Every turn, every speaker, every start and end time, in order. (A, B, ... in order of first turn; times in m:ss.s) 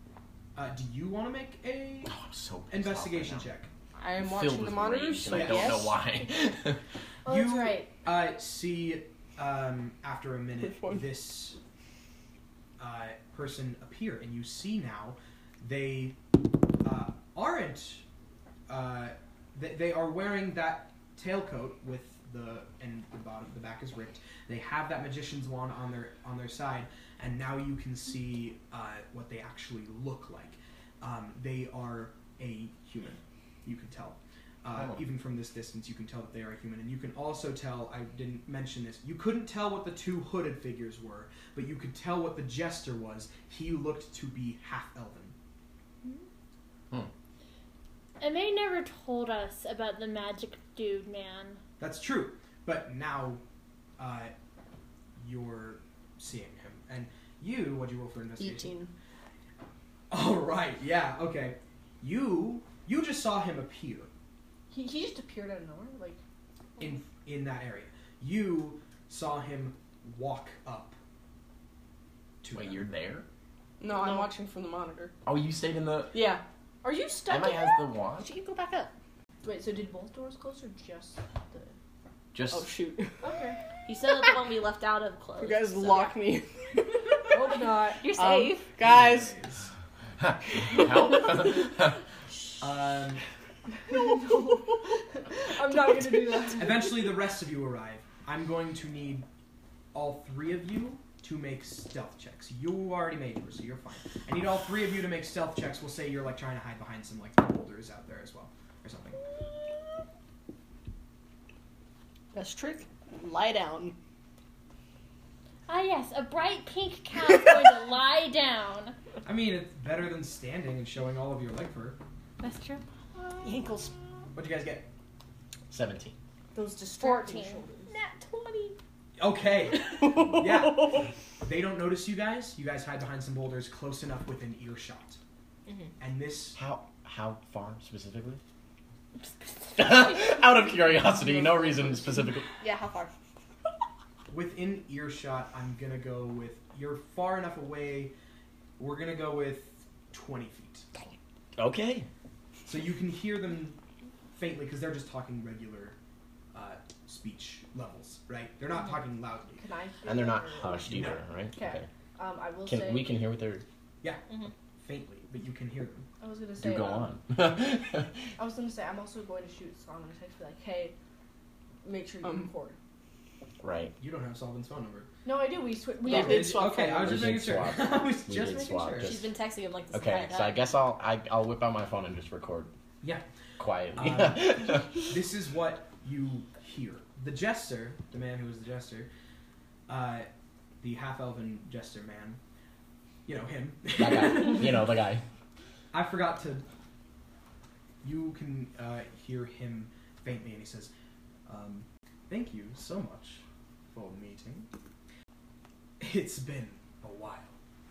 0:00.6-0:02.2 A
0:02.1-0:03.5 B
0:02.7-0:03.7 A
0:04.0-0:06.0 C
0:04.2-0:06.8 B
0:05.3-0:05.9 A
0:07.3-0:07.9 D
0:07.3-0:11.6 A
0:10.6-0:11.1 C
0:12.8-0:16.2 A
0:16.8-0:18.0 A
0:18.7-0:45.4 A
0:34.7-0:35.0 B
0:48.2-0:51.6 E
0:51.8-0:53.4 A
0:54.0-0:54.3 A
0:55.2-0:58.7 A
0:58.4-0:58.9 C
1:00.1-1:04.1 A
1:04.7-1:06.2 D
1:06.8-1:11.0 A
1:12.4-1:12.9 A
1:12.5-1:13.3 B
1:13.8-1:15.1 C
1:15.2-1:16.2 B
1:16.1-1:16.4 C
1:16.8-1:17.9 D
1:17.3-1:18.3 B
1:18.2-1:18.9 F
1:19.4-1:21.7 D
1:22.3-1:22.7 B
1:22.5-1:23.2 C
1:23.2-1:23.6 D
1:23.9-1:26.2 F
1:25.4-1:27.6 C
1:27.3-1:28.1 D
1:28.0-1:28.7 F
1:28.1-1:29.4 C
1:28.8-1:29.7 A
1:30.2-1:32.0 B
1:31.0-1:31.4 C
1:32.6-1:33.2 A
1:33.9-1:36.9 D
1:36.6-1:39.3 A
1:39.9-1:49.2 A
1:52.3-1:54.0 C
1:55.7-1:59.0 E
1:59.2-2:02.0 A
2:02.4-2:02.8 E
2:03.2-2:03.9 C
2:04.3-2:04.9 A
2:05.7-2:06.2 B
2:06.5-2:07.9 D
2:07.0-2:07.6 E
2:09.2-2:15.2 A
2:09.9-2:11.1 C
2:16.0-2:16.6 A
2:16.6-2:18.4 B
2:19.8-2:22.5 B
2:22.6-2:23.1 F
2:24.3-2:28.1 A
2:28.8-2:30.9 A
2:31.6-2:32.1 B
2:32.7-2:33.8 A
2:34.4-2:36.0 A
2:36.5-2:39.6 A
2:39.6-2:43.2 D
2:40.0-2:41.9 B
2:40.8-2:41.2 A
2:42.6-2:43.6 B
2:44.8-2:46.1 A
2:46.2-2:47.1 D
2:46.6-2:48.2 B
2:48.4-2:51.0 D
2:51.8-2:52.8 D
2:52.2-2:52.5 C
2:53.6-2:54.0 B
2:54.0-2:55.1 A
2:55.2-2:56.7 D
2:56.0-2:57.3 C
2:56.1-2:59.2 A
2:57.0-2:59.3 B
2:59.0-3:00.7 F
2:59.9-3:02.7 B
3:03.6-3:05.1 B
3:04.0-3:09.1 A
3:09.9-3:10.3 A
3:10.8-3:12.4 A
3:13.3-3:15.0 A
3:14.0-3:15.2 B
3:15.9-3:16.6 A
3:18.0-3:20.9 A
3:21.5-3:24.7 A
3:26.0-3:27.6 A